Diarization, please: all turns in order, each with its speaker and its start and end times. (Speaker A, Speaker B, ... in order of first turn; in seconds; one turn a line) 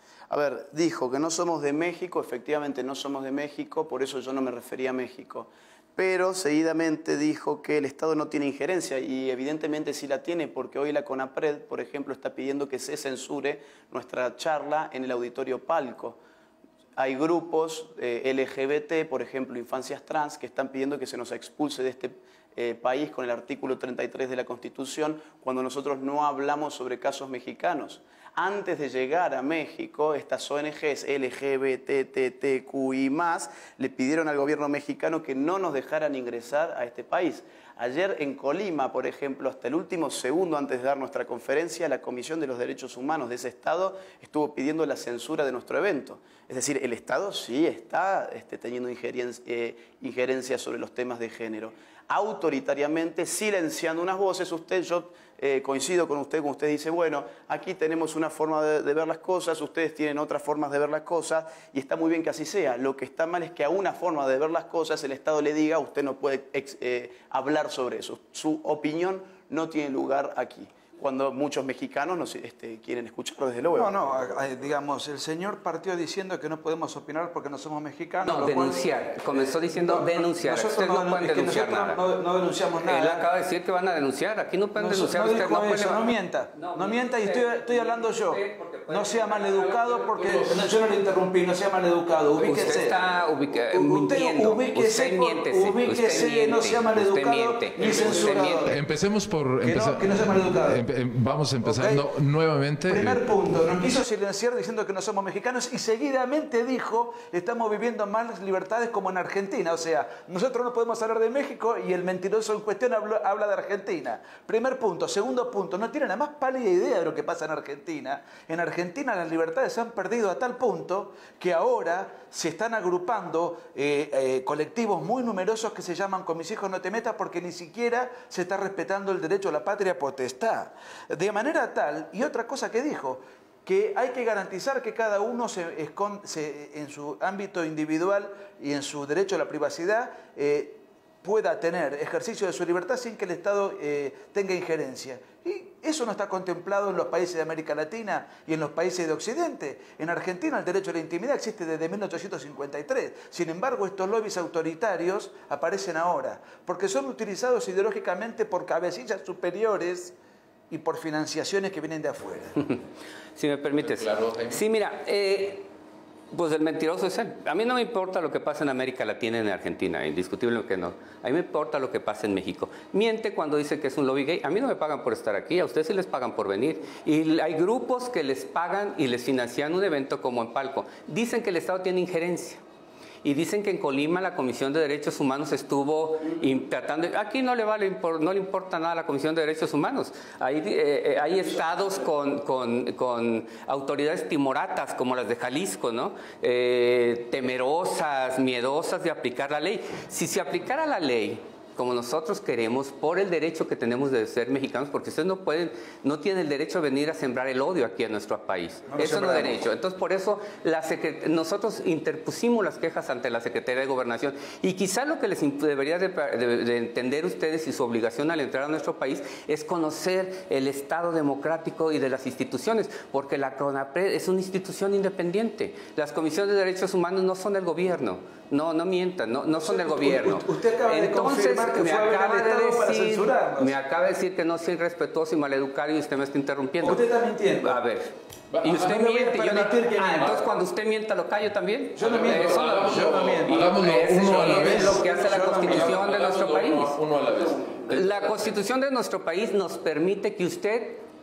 Speaker A: 0.3-16.2
Speaker A: 17.0-73.9
Speaker B: 73.8-83.2
Speaker C: 78.2-82.0
Speaker C: 82.8-90.7
Speaker B: 84.8-93.0
Speaker D: 90.2-90.5
Speaker C: 92.3-98.7
Speaker B: 93.7-98.7
Speaker D: 98.2-103.2
Speaker B: 99.6-102.0
Speaker B: 102.9-160.1
Speaker B: 160.7-162.6
Speaker C: 163.4-165.7
Speaker D: 163.8-164.6
Speaker C: 166.3-182.6
Speaker C: 183.2-246.9
Speaker B: 208.9-209.6
Speaker B: 229.6-233.7
Speaker B: 236.8-237.8
Speaker D: 238.5-239.0
Speaker B: 238.9-240.4
Speaker B: 242.0-246.0
Speaker D: 242.0-248.2
Speaker C: 247.9-251.0